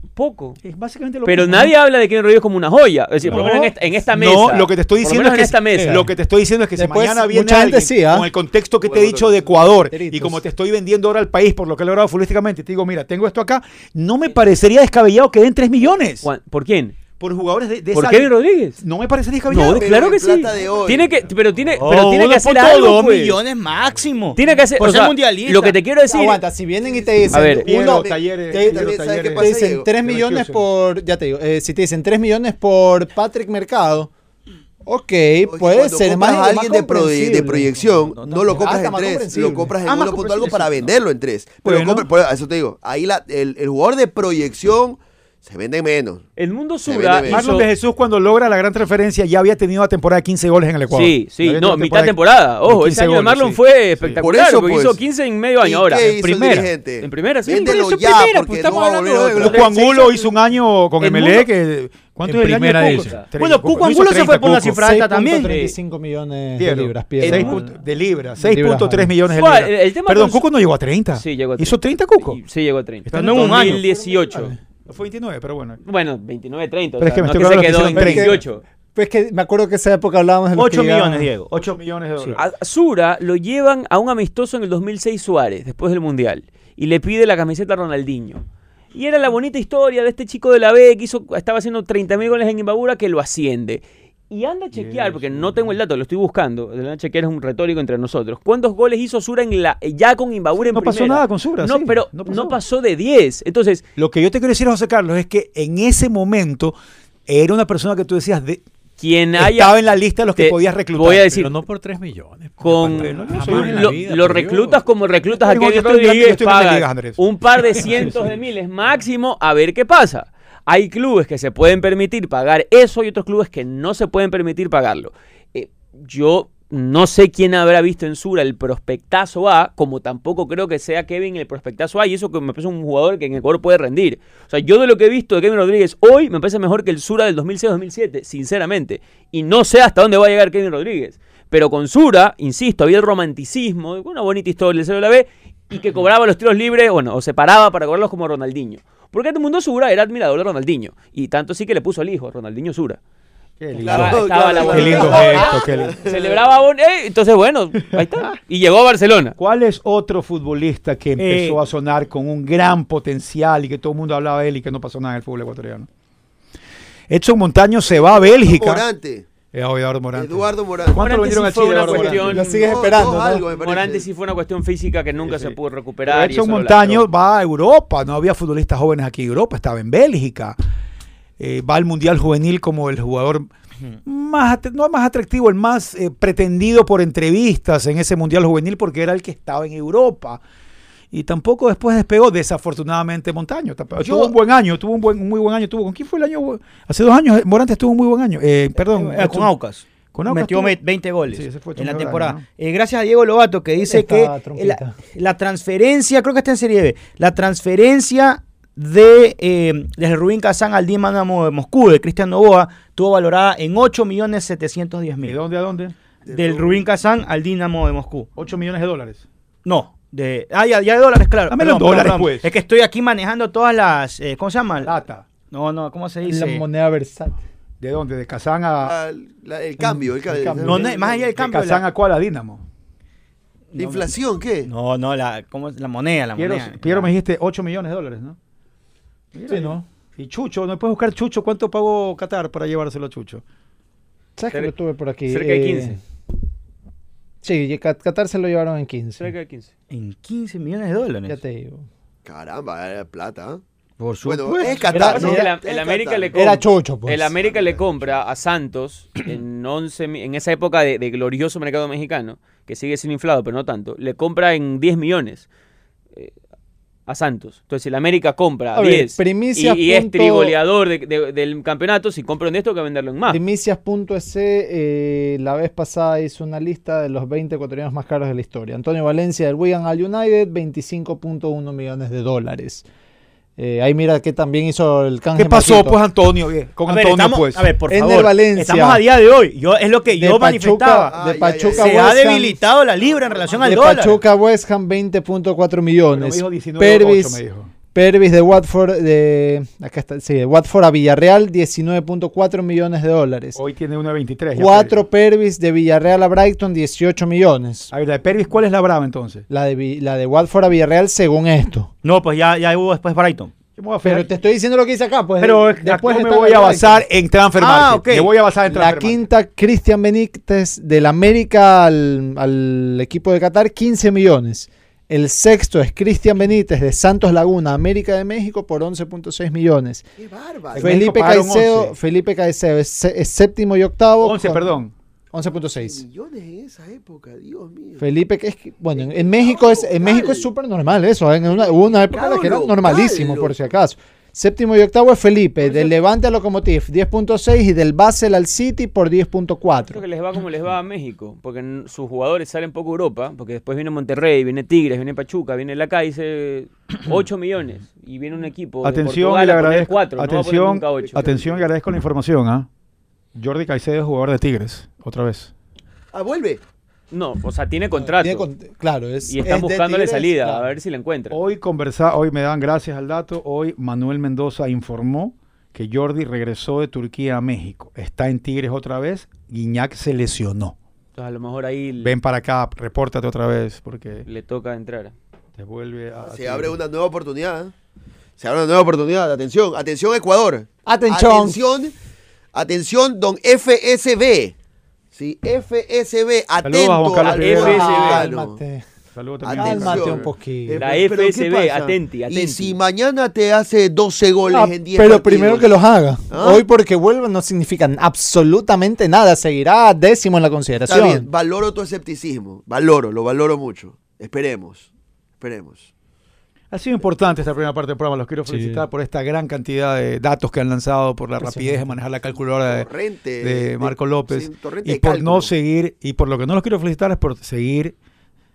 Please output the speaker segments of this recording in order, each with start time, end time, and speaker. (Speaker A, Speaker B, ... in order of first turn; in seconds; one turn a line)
Speaker A: 0.1-0.6
Speaker B: 0.6-1.7
Speaker A: 1.2-6.0
Speaker B: 3.2-16.3
Speaker C: 5.8-6.1
Speaker C: 6.7-8.3
Speaker D: 8.8-9.5
Speaker C: 9.8-10.4
Speaker A: 16.2-17.0
Speaker B: 17.1-20.0
Speaker A: 17.9-18.8
Speaker A: 19.5-23.4
Speaker D: 19.7-21.2
Speaker E: 21.8-25.8
Speaker A: 24.4-26.4
Speaker C: 26.1-34.1
Speaker D: 26.8-29.9
Speaker A: 27.3-27.7
Speaker B: 27.6-30.6
Speaker C: 34.8-37.8
Speaker D: 35.5-46.2
Speaker C: 38.5-39.7
Speaker E: 39.8-40.9
Speaker B: 41.6-42.1
Speaker A: 46.4-47.7
Speaker D: 46.8-47.5
Speaker B: 47.3-54.2
Speaker A: 50.9-56.2
Speaker D: 54.2-55.0
Speaker D: 55.6-59.9
Speaker A: 57.0-57.7
Speaker F: 57.6-59.4
Speaker E: 58.5-58.9
Speaker B: 59.3-64.8
Speaker A: 59.4-59.7
Speaker A: 61.0-61.5
Speaker F: 62.2-63.2
Speaker A: 62.8-63.2
Speaker E: 63.4-65.5
Speaker C: 64.7-67.7
Speaker A: 65.4-65.7
Speaker B: 66.6-72.4
Speaker A: 67.2-67.6
Speaker C: 68.4-69.1
Speaker A: 69.3-70.5
Speaker A: 71.1-74.5
Speaker B: 73.1-73.8
Speaker E: 73.1-73.8
Speaker C: 74.0-74.5
Speaker B: 74.8-75.8
Speaker A: 75.8-78.6
Speaker B: 77.0-78.4
Speaker C: 77.9-78.3
Speaker C: 78.9-81.3
Speaker E: 80.5-82.3
Speaker B: 81.5-82.4
Speaker A: 82.3-88.4
Speaker A: 88.9-103.8
Speaker B: 94.7-95.7
Speaker B: 100.5-102.6
Speaker B: 104.0-108.6
Speaker A: 109.0-109.8
Speaker B: 109.4-111.5
Speaker A: 110.3-111.5
Speaker F: 111.3-114.8
Speaker A: 112.6-153.0
Speaker B: 112.7-114.1
Speaker B: 115.3-118.3
Speaker B: 153.6-156.0
Speaker A: 153.8-159.3
Speaker D: 153.8-156.4
Speaker B: 159.4-165.9
Speaker E: 161.2-161.6
Speaker B: 167.1-168.8
Speaker D: 167.9-169.3
Speaker B: 169.5-172.4
Speaker D: 170.1-171.0
Speaker A: 170.9-172.8
Speaker D: 172.0-174.1
Speaker C: 172.1-173.4
Speaker A: 173.5-177.1
Speaker B: 175.2-180.6
Speaker B: 181.4-183.5
Speaker B: 184.0-190.4
Speaker B: 191.1-199.5
Speaker E: 194.0-194.3
Speaker E: 198.8-215.4
Speaker B: 200.1-200.8
Speaker B: 201.3-202.4
Speaker C: 203.8-204.9
Speaker B: 215.2-215.9
Speaker D: 216.2-216.8
Speaker E: 216.3-218.3
Speaker B: 218.3-219.2
Speaker E: 219.6-224.9
Speaker B: 221.5-222.5
Speaker B: 224.8-225.2
Speaker E: 225.5-226.6
Speaker C: 226.2-227.4
Speaker B: 227.8-229.0
Speaker D: 228.8-231.0
Speaker B: 229.8-232.6
Speaker E: 230.6-231.8
Speaker E: 233.7-234.1
Speaker D: 233.8-234.7
Speaker E: 234.6-237.1
Speaker B: 236.3-238.4
Speaker B: 239.3-243.4
Speaker C: 239.5-239.8
Speaker C: 244.4-246.0
Speaker A: 245.3-246.0
Speaker C: 247.4-249.3
Speaker A: 249.2-249.7
Speaker E: 249.9-251.4
Speaker C: 251.3-251.9
Speaker D: 252.2-253.6
Speaker E: 254.0-255.2
Speaker D: 254.2-256.5
Speaker C: 254.6-255.5
Speaker A: 254.9-265.5
Speaker C: 256.3-257.3
Speaker D: 257.4-258.2
Speaker A: 267.1-273.4
Speaker C: 268.7-270.5
Speaker C: 273.3-282.8
Speaker C: 283.6-286.0
Speaker B: 285.4-287.7
Speaker E: 286.8-291.1
Speaker C: 287.9-289.0
Speaker C: 290.1-292.6
Speaker D: 291.1-292.1
Speaker E: 291.7-294.2
Speaker D: 293.1-293.7
Speaker C: 293.6-297.4
Speaker B: 296.1-297.7
Speaker C: 297.9-303.6
Speaker B: 303.5-305.0
Speaker C: 304.5-307.9
Speaker B: 307.9-309.4
Speaker C: 309.5-311.9
Speaker E: 312.0-313.5
Speaker B: 313.8-314.3
Speaker C: 314.0-317.1
Speaker E: 315.4-315.7
Speaker B: 315.6-319.2
Speaker E: 317.6-318.3
Speaker C: 318.6-330.1
Speaker D: 330.2-331.0
Speaker B: 330.7-331.9
Speaker C: 330.8-334.8
Speaker B: 334.2-334.9
Speaker C: 335.3-336.0
Speaker D: 335.5-338.0
Speaker C: 338.0-350.0
Speaker D: 338.9-340.5
Speaker D: 341.5-343.6
Speaker D: 345.6-345.9
Speaker A: 349.8-361.4
Speaker B: 358.8-362.7
Speaker B: 363.3-365.5
Speaker D: 366.1-366.6
Speaker A: 367.1-368.5
Speaker C: 368.0-370.7
Speaker A: 369.3-371.4
Speaker B: 371.3-380.8
Speaker A: 381.1-382.1
Speaker B: 382.0-384.3
Speaker A: 384.2-385.1
Speaker B: 385.6-386.8
Speaker D: 386.2-387.7
Speaker D: 388.4-391.9
Speaker C: 390.9-391.6
Speaker D: 392.5-394.5
Speaker D: 395.1-398.6
Speaker B: 396.6-398.0
Speaker A: 397.2-398.3
Speaker C: 397.6-398.8
Speaker B: 399.1-400.3
Speaker D: 399.4-405.7
Speaker C: 399.5-400.8
Speaker A: 400.8-402.8
Speaker C: 404.5-411.3
Speaker D: 406.3-406.6
Speaker D: 410.9-414.9
Speaker D: 415.4-415.9
Speaker B: 416.7-422.9
Speaker F: 418.5-418.8
Speaker C: 421.4-421.9
Speaker D: 422.6-425.5
Speaker B: 423.4-427.9